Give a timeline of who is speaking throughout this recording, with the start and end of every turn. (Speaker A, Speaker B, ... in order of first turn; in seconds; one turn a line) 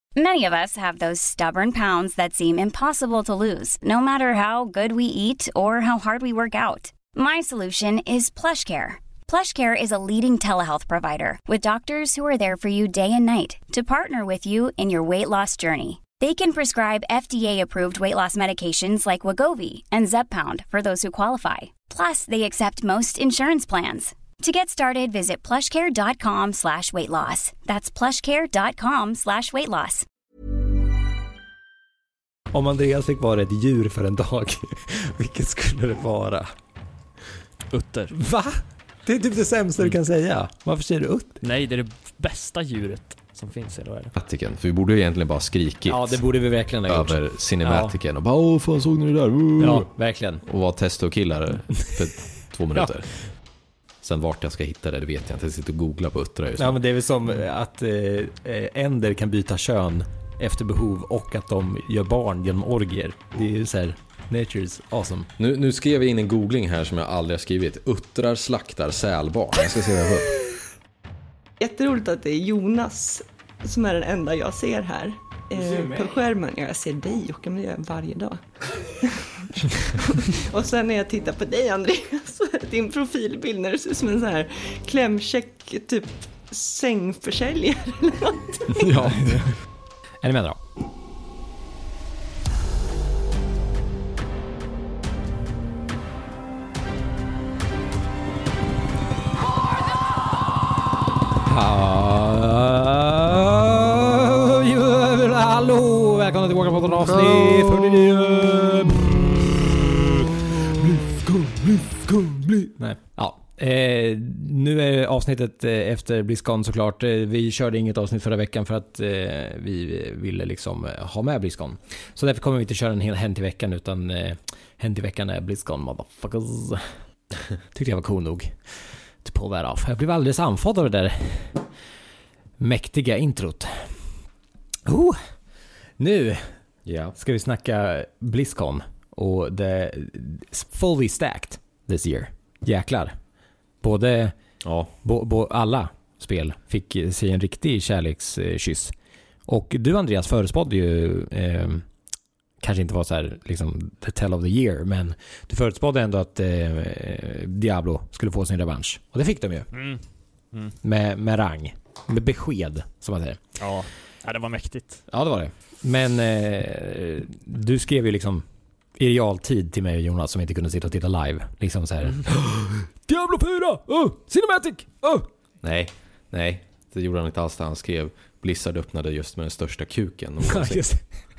Speaker A: 0.1-30.1
Speaker B: 32.5-36.5
Speaker C: 37.7-38.2
Speaker B: 38.1-41.4
Speaker C: 41.4-44.1
Speaker D: 44.1-46.2
Speaker B: 45.9-48.0
Speaker D: 46.9-49.9
Speaker B: 49.6-50.4
Speaker D: 50.4-53.2
Speaker B: 52.7-53.2
Speaker D: 54.0-56.8
Speaker B: 56.6-65.3
Speaker D: 65.4-70.3
Speaker E: 71.6-88.9
Speaker D: 88.8-89.5
Speaker B: 89.0-89.5
Speaker B: 90.2-90.6
Speaker B: 101.5-109.4
Speaker D: 107.0-108.6
Speaker B: 110.8-127.0
Speaker B: 127.7-131.7
Speaker B: 132.6-134.2
Speaker B: 134.8-135.2
Speaker B: 136.0-136.6
Speaker D: 136.8-137.2
Speaker B: 137.2-143.2
Speaker B: 143.8-144.3
Speaker D: 144.6-144.9
Speaker B: 145.0-148.9
Speaker B: 149.4-151.9
Speaker B: 152.6-159.7
Speaker C: 159.7-160.7
Speaker B: 160.8-163.4
Speaker C: 163.6-165.0
Speaker B: 165.1-168.4
Speaker B: 169.0-172.5
Speaker B: 173.0-175.3
Speaker D: 175.6-180.9
Speaker B: 180.5-181.3